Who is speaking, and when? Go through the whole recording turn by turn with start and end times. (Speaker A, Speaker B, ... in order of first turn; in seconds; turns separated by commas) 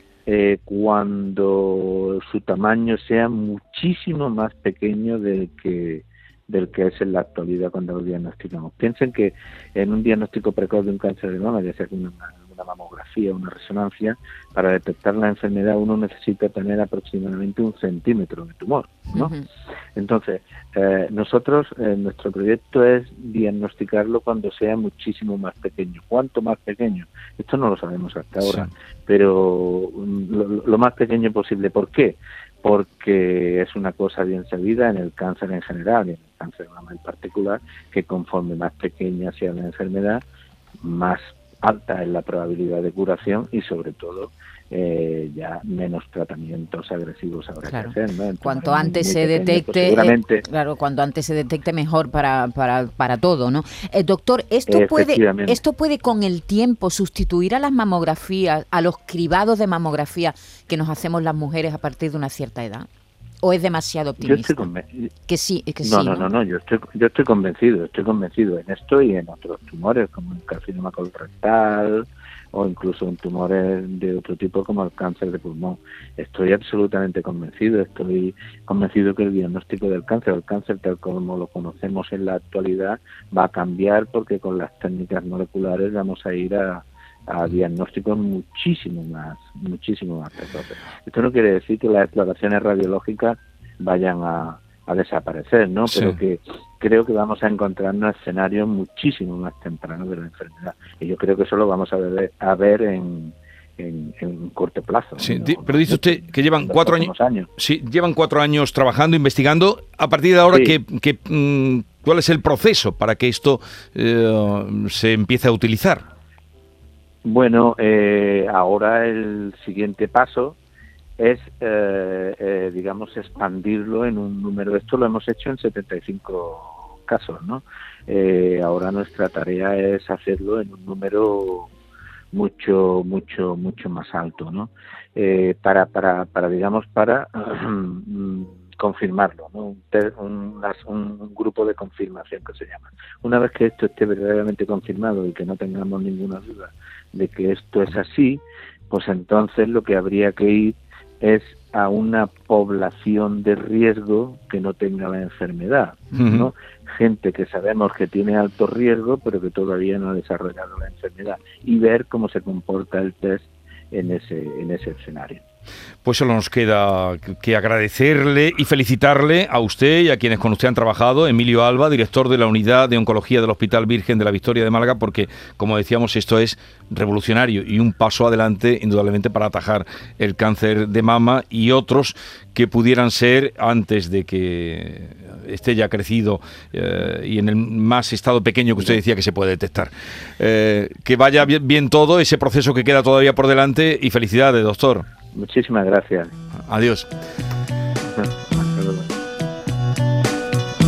Speaker A: 0.2-19.3, Speaker B: 19.1-19.4, Speaker A: 19.9-40.2, Speaker C: 28.4-28.7, Speaker A: 40.8-50.4, Speaker B: 47.6-62.9, Speaker A: 54.7-55.6, Speaker B: 63.4-64.7, Speaker A: 64.2-65.1, Speaker B: 65.3-66.3, Speaker A: 65.8-107.5, Speaker C: 95.9-96.1, Speaker C: 105.2-116.0, Speaker A: 110.5-110.8, Speaker A: 117.2-120.6, Speaker A: 121.2-131.7, Speaker A: 132.3-165.4, Speaker C: 156.1-156.5, Speaker C: 166.0-195.1, Speaker A: 195.3-196.3, Speaker C: 196.6-197.1, Speaker A: 198.1-199.1